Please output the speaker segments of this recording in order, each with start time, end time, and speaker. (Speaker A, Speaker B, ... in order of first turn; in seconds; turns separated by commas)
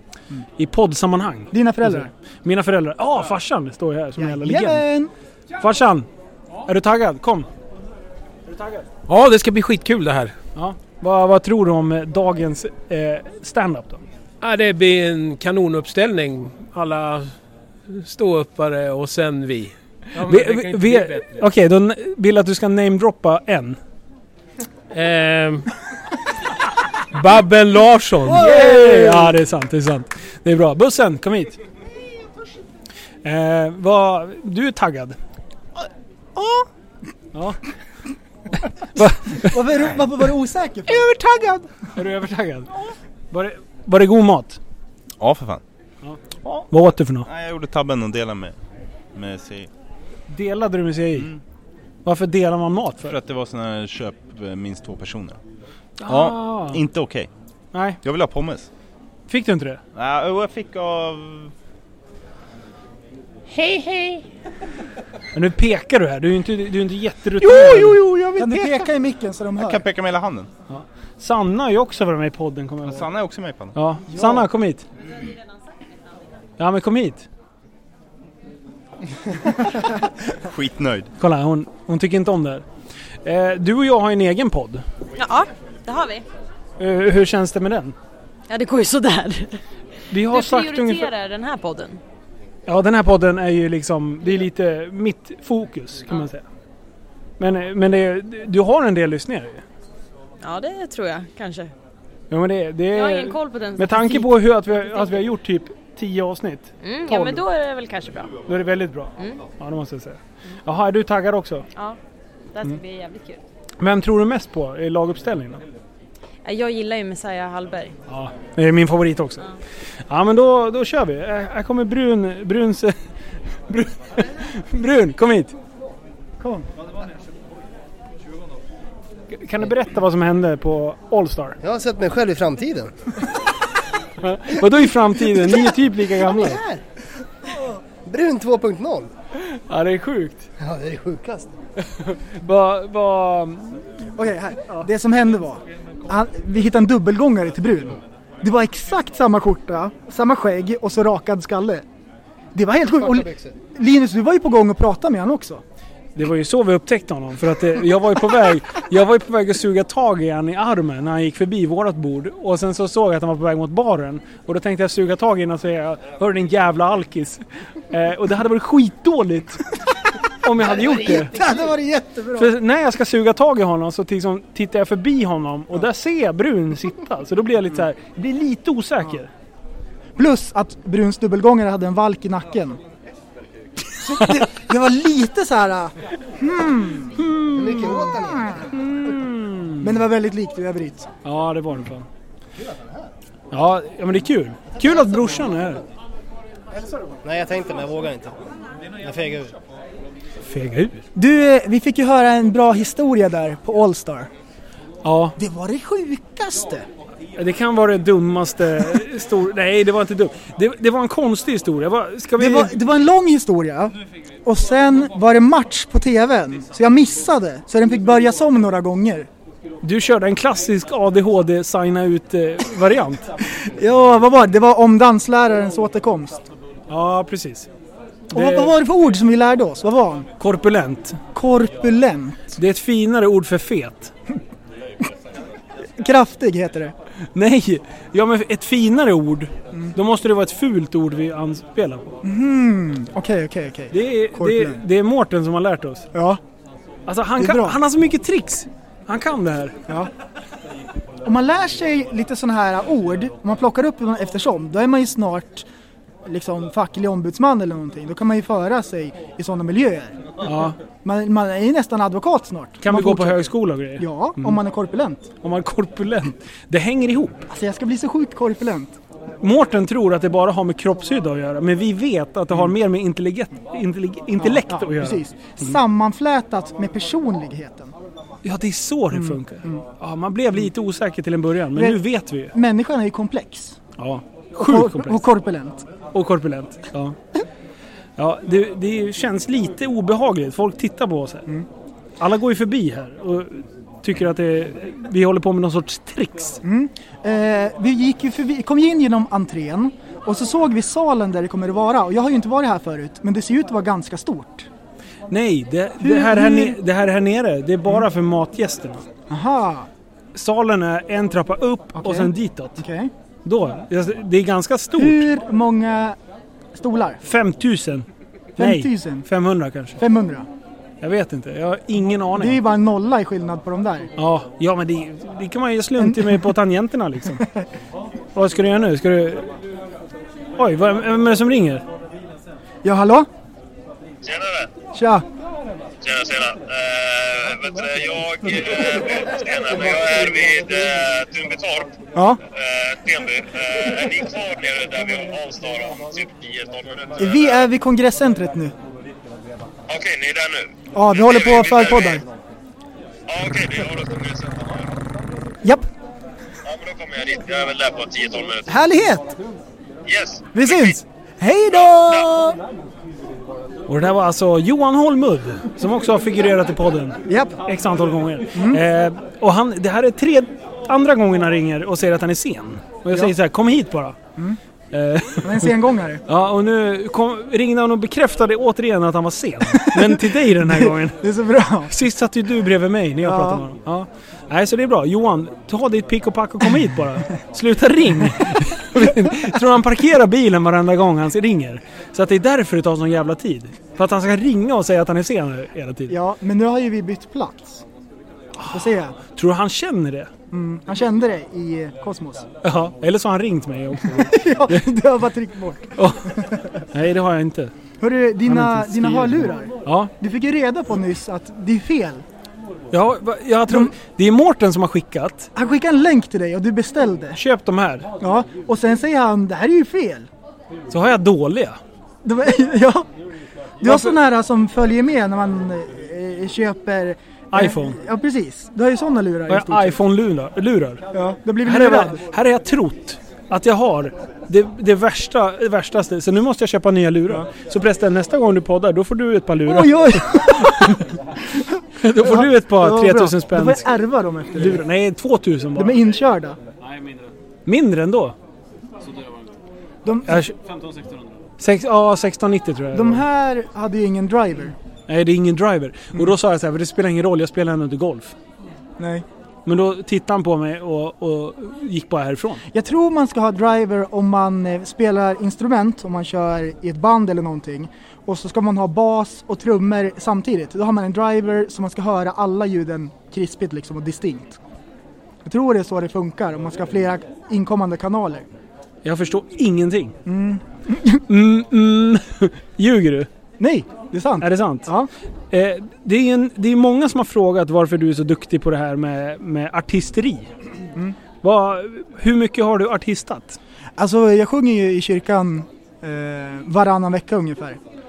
Speaker A: 0.6-4.9, Speaker B: 1.5-2.1, Speaker B: 4.2-5.1, Speaker A: 5.6-6.1, Speaker A: 6.7-7.5, Speaker A: 8.5-8.8, Speaker C: 9.1-10.3, Speaker A: 10.6-14.0, Speaker C: 14.4-17.3, Speaker C: 17.9-21.4, Speaker A: 20.2-23.8, Speaker C: 24.9-25.7, Speaker C: 27.1-29.3, Speaker A: 28.3-31.6, Speaker A: 33.2-35.2, Speaker B: 36.4-36.7, Speaker A: 37.3-37.7, Speaker A: 38.6-39.6, Speaker B: 39.3-41.6, Speaker A: 41.0-44.6, Speaker D: 45.2-45.6, Speaker A: 46.0-47.3, Speaker D: 47.3-48.6, Speaker D: 49.1-49.7, Speaker A: 50.3-51.3, Speaker D: 51.1-51.4, Speaker A: 52.0-53.1, Speaker D: 53.0-55.4, Speaker A: 56.0-56.8, Speaker D: 56.1-57.3, Speaker A: 57.7-58.0, Speaker D: 58.0-58.7, Speaker A: 59.3-59.8, Speaker D: 60.0-61.5, Speaker E: 63.5-64.2, Speaker A: 65.3-68.8, Speaker B: 67.4-69.8, Speaker D: 69.6-70.5, Speaker A: 70.7-73.1, Speaker D: 72.9-73.8, Speaker A: 73.8-74.8, Speaker B: 74.1-74.5, Speaker F: 75.0-75.9, Speaker A: 76.6-77.3, Speaker D: 80.4-81.1, Speaker A: 81.2-82.7, Speaker A: 83.2-84.8, Speaker F: 85.2-86.2, Speaker A: 86.8-88.0, Speaker F: 88.5-89.6, Speaker A: 90.1-91.1, Speaker F: 90.3-92.0, Speaker A: 92.7-96.5, Speaker A: 97.4-99.6, Speaker F: 100.4-101.7, Speaker A: 102.3-107.4, Speaker F: 102.9-105.1, Speaker F: 106.8-108.3, Speaker A: 108.5-111.7, Speaker F: 112.5-113.4, Speaker A: 113.8-115.6, Speaker F: 116.4-117.9, Speaker A: 118.1-119.4, Speaker A: 120.1-123.0, Speaker A: 123.7-125.6, Speaker B: 126.4-126.7, Speaker A: 129.3-131.6, Speaker E: 131.6-133.0, Speaker A: 134.2-136.6, Speaker E: 136.2-136.8, Speaker E: 138.1-139.1, Speaker A: 139.4-140.5, Speaker E: 140.6-141.5, Speaker A: 142.0-143.8, Speaker B: 144.2-151.8, Speaker B: 152.6-155.6, Speaker E: 153.1-153.5, Speaker A: 156.2-169.8, Speaker A: 170.4-171.4, Speaker E: 170.6-171.6, Speaker B: 170.8-172.5, Speaker A: 172.4-179.3, Speaker B: 180.2-182.8, Speaker B: 183.9-187.2, Speaker A: 187.2-188.1, Speaker E: 187.5-188.7, Speaker B: 187.8-188.7, Speaker A: 188.7-189.9, Speaker B: 189.8-191.1, Speaker A: 191.2-192.1, Speaker A: 193.5-195.8, Speaker E: 194.8-195.8, Speaker E: 197.2-199.6, Speaker A: 200.4-201.0, Speaker B: 201.2-204.3, Speaker A: 205.0-205.4, Speaker B: 205.4-206.9, Speaker A: 207.4-212.8, Speaker B: 212.4-219.3, Speaker A: 219.8-223.3, Speaker B: 223.4-226.5, Speaker A: 226.9-227.7, Speaker A: 228.3-228.8, Speaker B: 228.3-230.3, Speaker A: 230.4-231.2, Speaker B: 231.3-232.6, Speaker A: 232.6-234.1, Speaker B: 235.9-236.9, Speaker A: 237.3-242.2, Speaker B: 242.2-244.8, Speaker A: 243.9-246.1, Speaker B: 246.1-246.4, Speaker A: 247.1-249.8, Speaker B: 247.4-247.8, Speaker B: 251.2-255.7, Speaker B: 256.2-260.2, Speaker A: 260.4-260.8, Speaker B: 261.0-265.3, Speaker A: 262.8-264.6, Speaker A: 265.4-267.5, Speaker B: 267.5-268.9, Speaker A: 269.4-275.8, Speaker B: 274.4-277.9, Speaker A: 278.4-282.5, Speaker B: 279.1-279.8, Speaker B: 281.7-283.8, Speaker A: 284.0-285.2, Speaker B: 284.6-285.9, Speaker A: 286.1-287.2, Speaker A: 288.2-291.5, Speaker A: 292.2-296.6, Speaker B: 296.6-304.7, Speaker A: 305.3-309.1, Speaker B: 306.0-306.8, Speaker B: 309.3-309.9, Speaker A: 310.4-312.8, Speaker B: 312.0-313.1, Speaker A: 313.4-315.3, Speaker B: 314.9-316.2, Speaker B: 316.7-317.2, Speaker A: 317.2-320.0, Speaker B: 318.6-319.3, Speaker B: 320.0-320.5, Speaker A: 321.0-322.6, Speaker B: 322.3-324.1, Speaker A: 324.2-327.5, Speaker B: 326.0-326.6, Speaker B: 327.3-327.6, Speaker A: 328.4-329.5, Speaker A: 330.6-331.9, Speaker B: 332.8-333.3, Speaker G: 334.2-334.7, Speaker B: 334.9-335.3, Speaker G: 336.0-342.0, Speaker B: 342.1-342.4, Speaker G: 342.5-347.6, Speaker B: 347.2-348.8, Speaker G: 349.9-352.2, Speaker B: 350.9-352.2, Speaker G: 353.3-355.0, Speaker B: 355.6-355.9, Speaker G: 356.6-358.7, Speaker B: 358.7-359.3, Speaker G: 360.1-361.0, Speaker B: 360.5-362.6, Speaker G: 361.7-362.3, Speaker A: 363.9-374.2, Speaker B: 367.3-367.6, Speaker B: 368.5-368.8, Speaker B: 373.1-373.4, Speaker A: 374.9-375.7, Speaker B: 375.4-376.2, Speaker A: 376.3-381.2, Speaker B: 379.7-381.9, Speaker A: 381.9-396.2, Speaker B: 383.2-383.7, Speaker B: 388.9-389.5, Speaker B: 396.1-397.9, Speaker A: 398.6-400.3, Speaker B: 398.7-399.2, Speaker B: 400.5-402.5, Speaker A: 402.6-404.9, Speaker B: 404.0-406.8, Speaker A: 406.0-406.4, Speaker A: 406.9-407.7, Speaker B: 408.0-412.2, Speaker A: 408.4-410.1, Speaker A: 412.9-415.5, Speaker B: 413.7-413.9, Speaker B: 415.6-417.4, Speaker A: 417.4-418.1, Speaker B: 418.2-420.3, Speaker A: 420.9-421.8, Speaker B: 422.2-423.1, Speaker B: 423.8-430.0, Speaker A: 423.9-424.1, Speaker A: 427.5-428.0, Speaker A: 429.5-431.0, Speaker B: 431.1-432.2, Speaker A: 431.6-441.1, Speaker B: 439.6-444.9, Speaker A: 442.0-443.9, Speaker A: 444.5-446.0, Speaker B: 445.8-446.6, Speaker A: 447.7-448.4, Speaker B: 450.0-450.5, Speaker A: 450.3-453.2, Speaker B: 452.9-454.8, Speaker A: 455.1-458.4, Speaker B: 459.0-459.2, Speaker A: 459.7-462.6, Speaker B: 462.7-474.6, Speaker B: 475.4-478.5, Speaker A: 479.1-480.2, Speaker B: 480.3-481.2, Speaker A: 481.3-483.3, Speaker B: 483.6-485.1, Speaker A: 484.4-484.9, Speaker A: 485.5-490.5, Speaker A: 491.4-493.6, Speaker B: 494.0-497.8